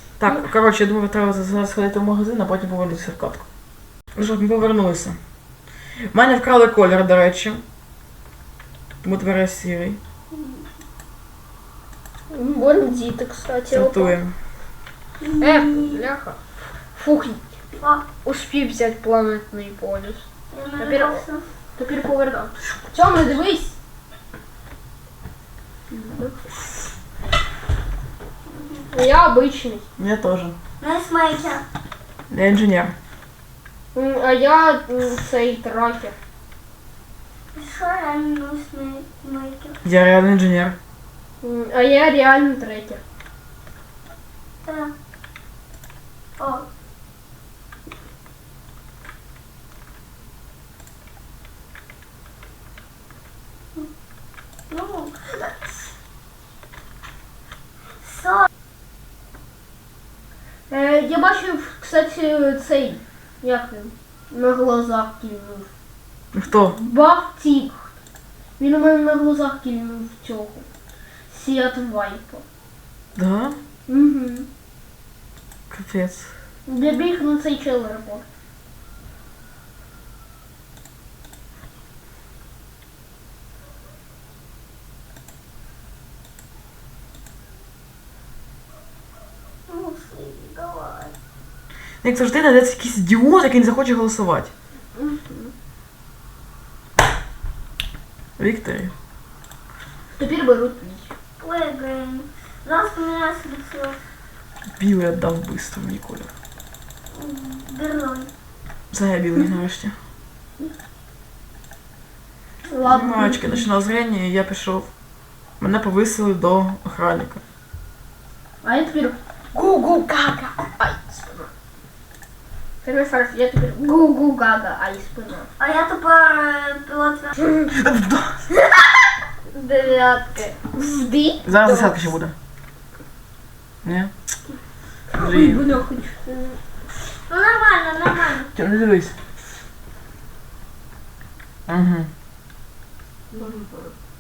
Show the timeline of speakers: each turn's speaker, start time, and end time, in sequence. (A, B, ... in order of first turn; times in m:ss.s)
0:00.2-0:03.5 A
0:04.2-0:05.2 A
0:06.1-0:07.6 A
0:09.0-0:10.0 A
0:10.3-0:10.6 B
0:12.3-0:14.2 C
0:13.7-0:14.3 A
0:15.2-0:16.0 B
0:15.4-0:16.4 C
0:17.0-0:17.6 C
0:17.8-0:18.1 B
0:18.2-0:20.3 C
0:20.5-0:21.5 B
0:20.8-0:21.2 C
0:21.8-0:23.8 C
0:25.9-0:26.4 C
0:28.7-0:29.8 C
0:30.0-0:30.6 A
0:30.8-0:31.6 B
0:32.3-0:32.9 A
0:33.9-0:36.2 C
0:37.5-0:39.8 B
0:39.8-0:40.8 A
0:41.4-0:43.0 C
0:44.6-0:44.9 B
0:46.4-0:46.7 B
0:54.7-0:55.9 B
0:58.0-0:58.5 B
1:00.7-1:05.7 C
1:06.3-1:06.8 A
1:06.7-1:07.9 C
1:08.6-1:10.7 C
1:11.3-1:12.4 C
1:13.2-1:13.6 A
1:13.9-1:14.5 C
1:15.7-1:16.3 A
1:16.7-1:18.2 C
1:29.7-1:31.1 B
1:32.0-1:34.5 A
1:35.0-1:35.5 C
1:38.4-1:38.9 A
1:40.2-1:41.1 C
1:41.4-1:44.0 B
1:44.8-1:46.3 A
1:47.1-1:48.3 B
1:48.9-1:50.0 A
1:52.7-1:53.7 C
1:52.8-1:54.9 A
1:55.6-1:57.4 A
1:58.6-2:01.5 C
2:02.8-2:05.5 C
2:05.6-2:07.4 B
2:07.7-2:08.5 A
2:09.5-2:10.6 B
2:10.7-2:12.1 C
2:11.4-2:12.3 A
2:13.8-2:14.1 A
2:15.1-2:16.6 C
2:15.2-2:15.7 A
2:17.3-2:18.5 B
2:18.6-2:19.2 A
2:21.7-2:22.1 A
2:23.3-2:23.7 B
2:23.4-2:23.9 C